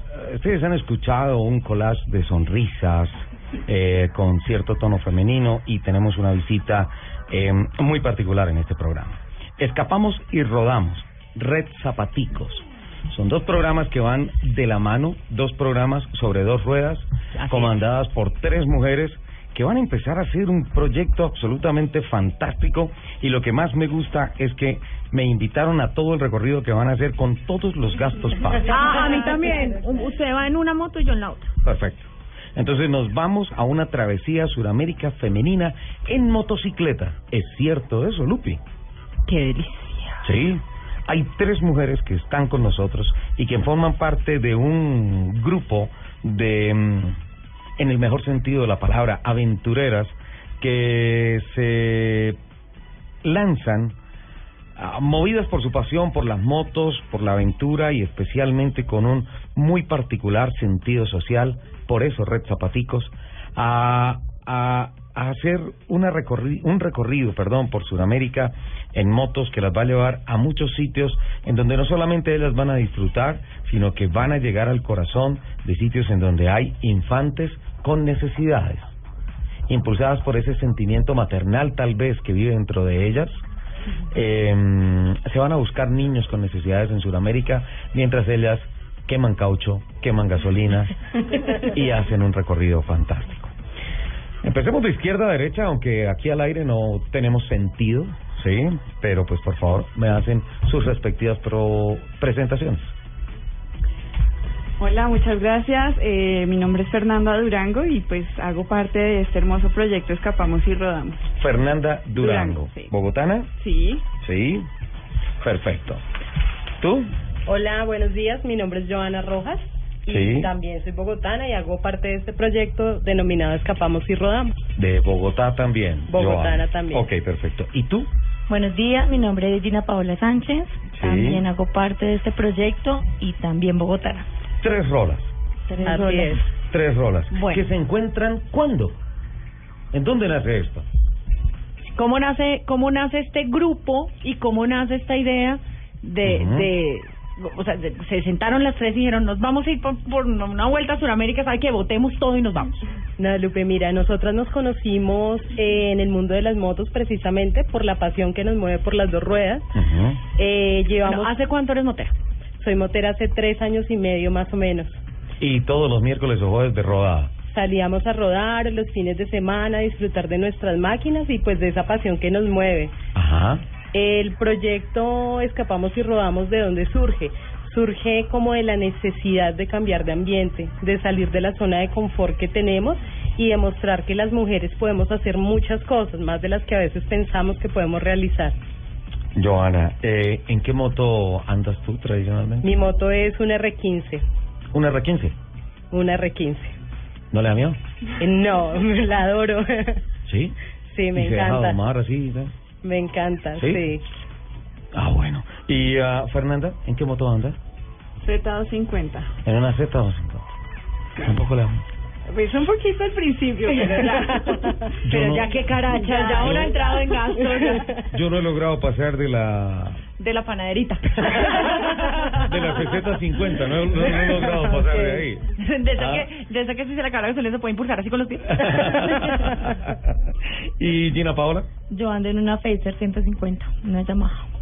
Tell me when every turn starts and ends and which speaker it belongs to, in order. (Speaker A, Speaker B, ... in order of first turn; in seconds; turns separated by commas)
Speaker A: 0.1-28.7, Speaker B: 17.4-17.8, Speaker B: 28.6-31.5, Speaker A: 31.6-38.6, Speaker B: 39.3-40.2, Speaker A: 40.2-47.2, Speaker A: 47.8-52.4, Speaker A: 53.2-53.9, Speaker A: 54.8-78.9, Speaker A: 79.7-83.4, Speaker A: 84.1-90.9, Speaker A: 91.6-93.5, Speaker A: 94.4-102.9, Speaker C: 104.8-111.2, Speaker A: 111.4-113.5, Speaker C: 112.2-112.9, Speaker C: 113.6-114.0, Speaker A: 114.2-114.7, Speaker A: 115.4-116.0, Speaker A: 116.8-117.1, Speaker D: 117.5-124.6, Speaker A: 120.0-120.5, Speaker A: 124.8-128.1, Speaker D: 126.1-127.0, Speaker E: 128.5-134.2, Speaker A: 130.9-131.4, Speaker A: 134.6-135.3, Speaker E: 135.7-136.4, Speaker D: 135.8-136.4, Speaker A: 136.7-138.9, Speaker B: 137.3-137.7, Speaker A: 139.9-140.8, Speaker B: 141.8-152.8, Speaker A: 146.2-146.7, Speaker D: 153.2-159.6, Speaker A: 159.7-160.2, Speaker D: 160.3-161.3, Speaker B: 161.0-162.1, Speaker D: 162.6-165.0, Speaker A: 165.4-167.3, Speaker D: 167.4-172.9, Speaker A: 173.1-173.6, Speaker D: 173.9-188.5, Speaker A: 189.3-192.7, Speaker D: 192.6-194.2, Speaker A: 194.7-195.3, Speaker D: 195.9-196.7, Speaker A: 197.3-197.8, Speaker D: 198.2-200.0, Speaker A: 200.3-200.6, Speaker D: 200.8-201.8, Speaker A: 201.1-202.5, Speaker D: 202.8-204.0, Speaker A: 203.6-203.9, Speaker A: 204.9-207.6, Speaker C: 208.2-209.3, Speaker A: 209.4-210.5, Speaker A: 211.2-211.8, Speaker C: 212.3-217.1, Speaker A: 215.0-215.6, Speaker B: 215.1-217.9, Speaker A: 216.4-216.8, Speaker D: 217.3-217.7, Speaker A: 217.9-220.0, Speaker B: 220.2-222.8, Speaker A: 221.2-221.6, Speaker A: 222.4-226.3, Speaker D: 224.6-225.2, Speaker B: 225.6-229.3, Speaker A: 228.6-230.1, Speaker A: 230.8-231.7, Speaker E: 231.9-234.5